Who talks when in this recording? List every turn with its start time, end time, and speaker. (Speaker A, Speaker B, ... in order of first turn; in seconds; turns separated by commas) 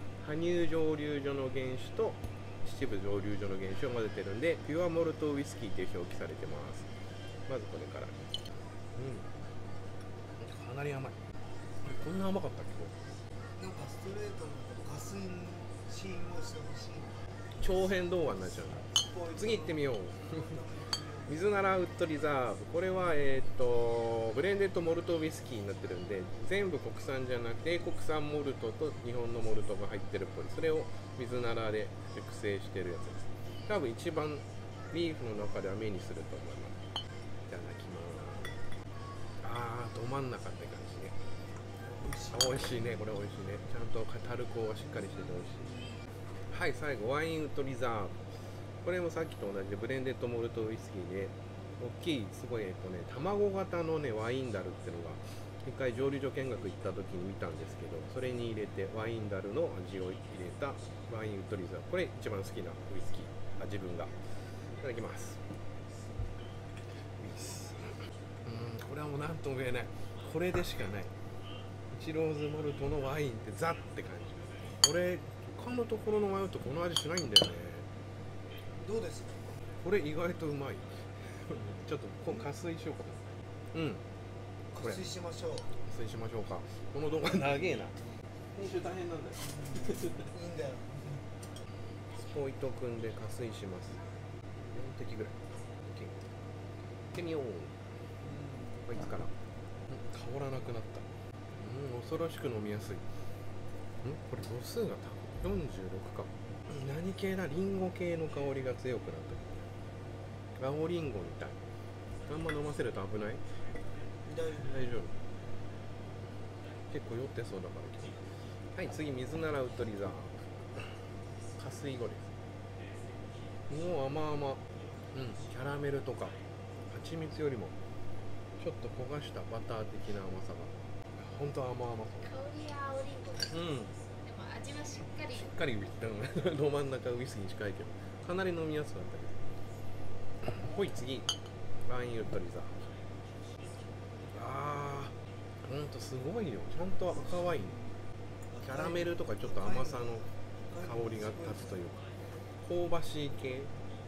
Speaker A: 0.2-6.9, Speaker A: 7.5-8.4, Speaker A: 8.9-9.3, Speaker A: 10.4-11.2, Speaker A: 11.8-13.0, Speaker B: 13.6-17.2, Speaker A: 17.6-20.5, Speaker B: 18.4-21.3, Speaker A: 21.2-36.8, Speaker A: 37.5-38.7, Speaker A: 39.4-41.1, Speaker B: 41.8-43.2, Speaker A: 42.3-45.6, Speaker B: 44.8-46.0, Speaker A: 46.5-48.2, Speaker A: 48.8-65.4, Speaker A: 66.9-67.8, Speaker A: 68.4-71.1, Speaker A: 71.9-77.8, Speaker B: 78.8-79.5, Speaker A: 79.8-84.0, Speaker B: 84.7-85.7, Speaker A: 85.7-88.0, Speaker A: 88.5-90.3, Speaker B: 89.4-91.3, Speaker A: 92.1-94.0, Speaker A: 94.6-96.2, Speaker A: 97.1-97.8, Speaker B: 98.2-98.8, Speaker A: 98.8-99.3, Speaker A: 99.9-103.1, Speaker A: 104.0-109.7, Speaker A: 110.5-111.6, Speaker A: 112.2-113.5, Speaker B: 114.2-115.0, Speaker A: 114.6-115.1, Speaker A: 116.9-121.0, Speaker A: 121.6-122.3, Speaker A: 123.7-124.6, Speaker A: 125.1-126.3, Speaker A: 126.9-127.8, Speaker A: 128.6-132.4, Speaker C: 132.2-133.7, Speaker A: 133.4-133.9, Speaker C: 134.2-135.6, Speaker A: 135.3-139.4, Speaker A: 140.4-142.8, Speaker A: 144.3-147.8, Speaker B: 147.1-151.8, Speaker A: 148.6-150.3, Speaker A: 150.8-152.0, Speaker A: 152.6-153.7